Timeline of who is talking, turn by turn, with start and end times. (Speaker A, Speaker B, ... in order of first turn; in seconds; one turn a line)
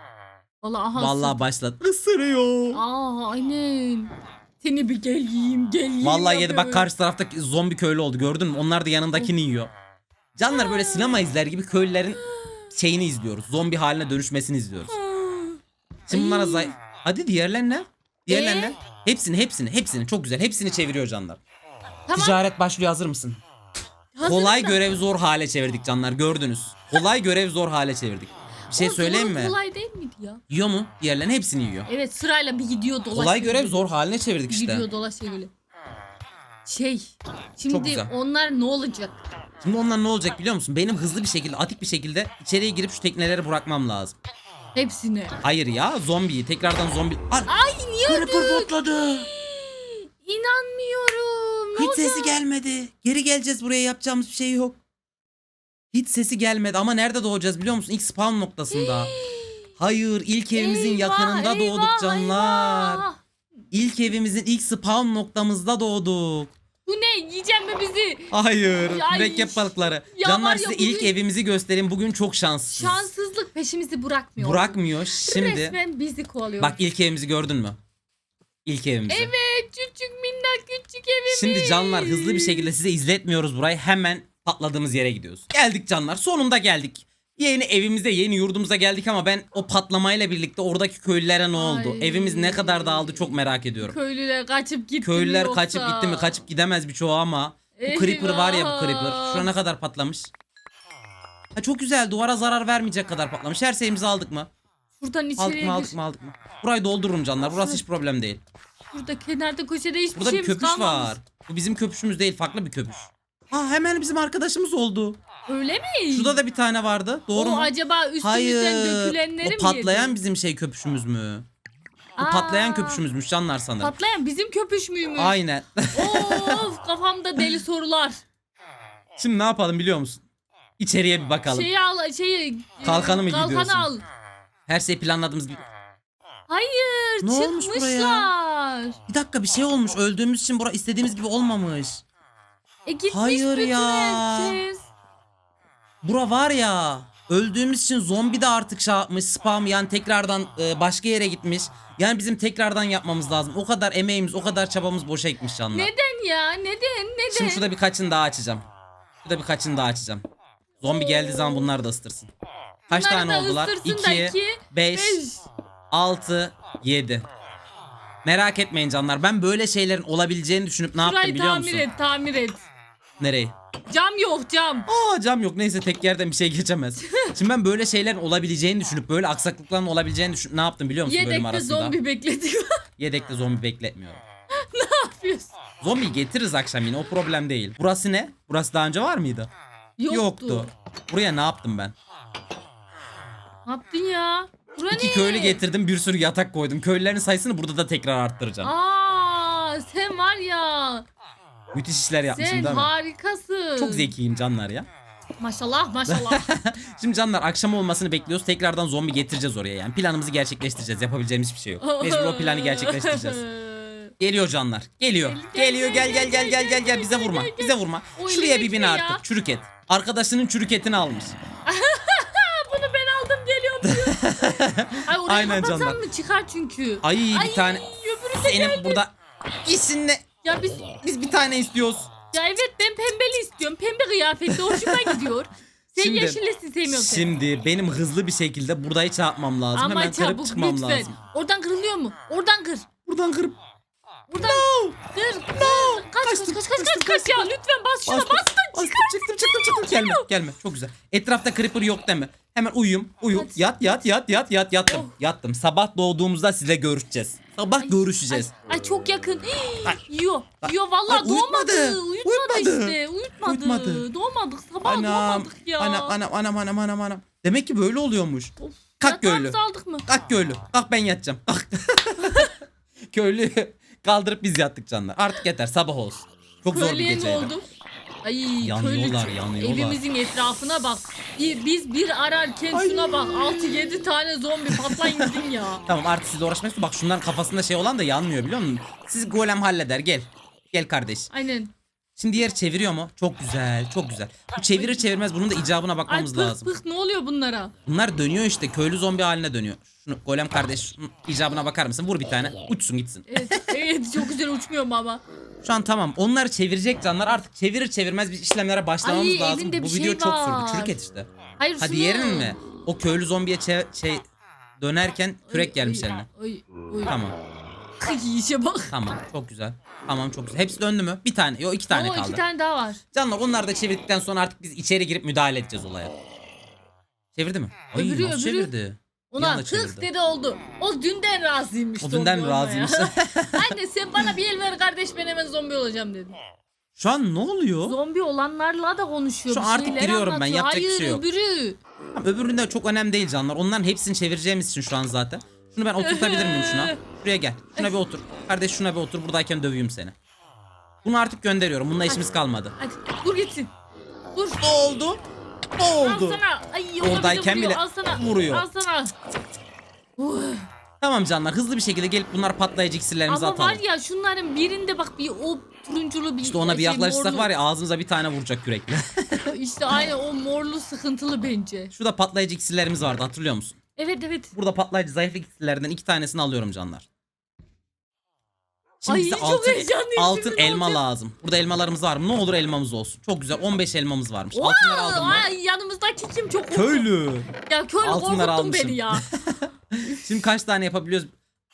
Speaker A: 0.6-1.4
Speaker B: 0.9-2.8
Speaker A: 2.7-6.9
Speaker B: 6.0-9.7
Speaker B: 10.3-15.0
Speaker A: 10.4-11.2
Speaker A: 12.2-12.6
Speaker A: 14.9-16.7
Speaker B: 16.1-21.4
Speaker A: 18.3-18.8
Speaker A: 22.1-22.4
Speaker B: 22.1-23.4
Speaker A: 24.1-24.9
Speaker B: 24.2-29.6
Speaker A: 28.7-30.4
Speaker B: 30.5-31.9
Speaker A: 31.9-33.8
Speaker B: 33.1-34.9
Speaker A: 34.5-35.5
Speaker A: 36.6-39.2
Speaker B: 37.7-38.1
Speaker B: 39.6-44.1
Speaker A: 44.8-45.4
Speaker B: 45.4-47.5
Speaker A: 47.5-52.4
Speaker B: 48.0-49.3
Speaker B: 51.8-54.8
Speaker B: 55.9-59.1
Speaker A: 58.7-59.6
Speaker B: 59.8-63.0
Speaker A: 60.5-63.2
Speaker B: 63.7-66.5
Speaker A: 66.8-71.1
Speaker B: 68.3-73.1
Speaker A: 72.7-76.8
Speaker B: 74.4-75.8
Speaker B: 76.6-77.8
Speaker B: 78.7-79.3
Speaker A: 79.1-82.7
Speaker B: 81.3-94.0
Speaker A: 91.5-93.0
Speaker A: 93.8-96.3
Speaker B: 95.0-100.3
Speaker A: 97.8-99.5
Speaker B: 101.5-104.5
Speaker A: 105.0-106.0
Speaker B: 105.4-108.4
Speaker A: 107.5-107.8
Speaker A: 108.9-111.2
Speaker B: 110.1-115.2
Speaker A: 115.5-116.4
Speaker B: 116.1-121.5
Speaker A: 117.3-120.2
Speaker A: 122.2-123.0
Speaker B: 122.2-124.0
Speaker A: 123.8-125.3
Speaker B: 125.2-126.6
Speaker A: 125.9-128.2
Speaker B: 129.2-130.2
Speaker B: 130.8-131.7
Speaker A: 131.5-134.0
Speaker B: 132.8-133.9
Speaker B: 134.7-135.6
Speaker A: 136.5-139.0
Speaker B: 137.2-138.3
Speaker B: 139.1-142.0
Speaker A: 142.9-144.8
Speaker B: 143.1-144.6
Speaker B: 146.0-155.9
Speaker A: 155.7-157.7
Speaker B: 157.3-158.7
Speaker B: 159.2-160.2
Speaker B: 160.8-162.3
Speaker A: 160.8-161.7
Speaker B: 162.9-165.2
Speaker A: 162.9-165.5
Speaker B: 165.9-167.2
Speaker B: 168.2-171.9
Speaker A: 171.0-172.7
Speaker B: 173.2-173.5
Speaker A: 173.9-174.9
Speaker B: 174.9-182.0
Speaker A: 177.0-177.3
Speaker A: 181.0-182.8
Speaker B: 183.0-184.2
Speaker A: 184.6-185.5
Speaker B: 185.8-189.5
Speaker A: 190.0-190.7
Speaker B: 190.1-191.9
Speaker A: 193.7-195.6
Speaker B: 194.9-198.7
Speaker A: 198.6-201.1
Speaker B: 201.7-202.9
Speaker A: 202.2-204.1
Speaker B: 203.8-204.9
Speaker A: 205.4-206.5
Speaker B: 206.1-213.4
Speaker A: 211.8-214.1
Speaker B: 214.2-221.4
Speaker A: 215.2-219.2
Speaker A: 221.7-229.0
Speaker B: 223.8-226.0
Speaker B: 227.0-229.1
Speaker B: 229.6-230.2
Speaker A: 230.4-231.0
Speaker B: 231.0-232.1
Speaker A: 232.3-237.3
Speaker B: 234.5-235.2
Speaker B: 236.0-241.2
Speaker A: 239.8-242.9
Speaker B: 243.1-243.6
Speaker A: 244.3-250.3
Speaker B: 244.4-245.0
Speaker B: 245.5-247.5
Speaker B: 248.1-258.5
Speaker A: 253.3-254.0
Speaker A: 254.9-255.1
Speaker A: 257.8-266.2
Speaker B: 260.6-264.1
Speaker B: 264.8-272.6
Speaker A: 268.6-270.1
Speaker A: 272.2-272.5
Speaker B: 273.1-277.5
Speaker A: 276.7-277.6
Speaker A: 278.2-285.8
Speaker B: 278.6-280.0
Speaker B: 282.7-283.8
Speaker B: 284.7-291.3
Speaker A: 291.3-291.7
Speaker B: 292.2-296.7
Speaker A: 294.7-295.1
Speaker A: 296.1-297.7
Speaker B: 297.9-303.8
Speaker A: 303.3-305.2
Speaker B: 305.6-311.3
Speaker A: 309.0-310.9
Speaker A: 311.6-312.6
Speaker B: 311.8-314.2
Speaker B: 314.8-316.3
Speaker A: 315.5-317.1
Speaker B: 317.1-317.4
Speaker A: 318.0-318.9
Speaker B: 318.9-322.4
Speaker A: 321.9-323.0
Speaker B: 323.1-326.1
Speaker B: 327.3-330.1
Speaker A: 327.9-328.7
Speaker A: 329.3-336.4
Speaker B: 332.0-334.3
Speaker B: 337.0-338.0
Speaker A: 337.9-341.8
Speaker B: 339.5-341.2
Speaker B: 342.1-350.1
Speaker A: 346.0-347.0
Speaker B: 351.0-352.7
Speaker A: 352.1-353.7
Speaker A: 354.3-354.6
Speaker B: 354.6-355.2
Speaker B: 355.8-356.4
Speaker A: 355.9-359.1
Speaker B: 357.0-358.7
Speaker A: 360.2-360.7
Speaker B: 361.0-363.8
Speaker A: 363.3-367.5
Speaker B: 366.4-369.5
Speaker A: 369.4-371.9
Speaker B: 371.9-373.8
Speaker A: 374.0-374.5
Speaker B: 374.5-377.0
Speaker B: 379.0-385.5
Speaker A: 379.1-381.0
Speaker A: 384.5-387.1
Speaker B: 386.7-387.5
Speaker A: 387.6-389.3
Speaker B: 388.0-391.3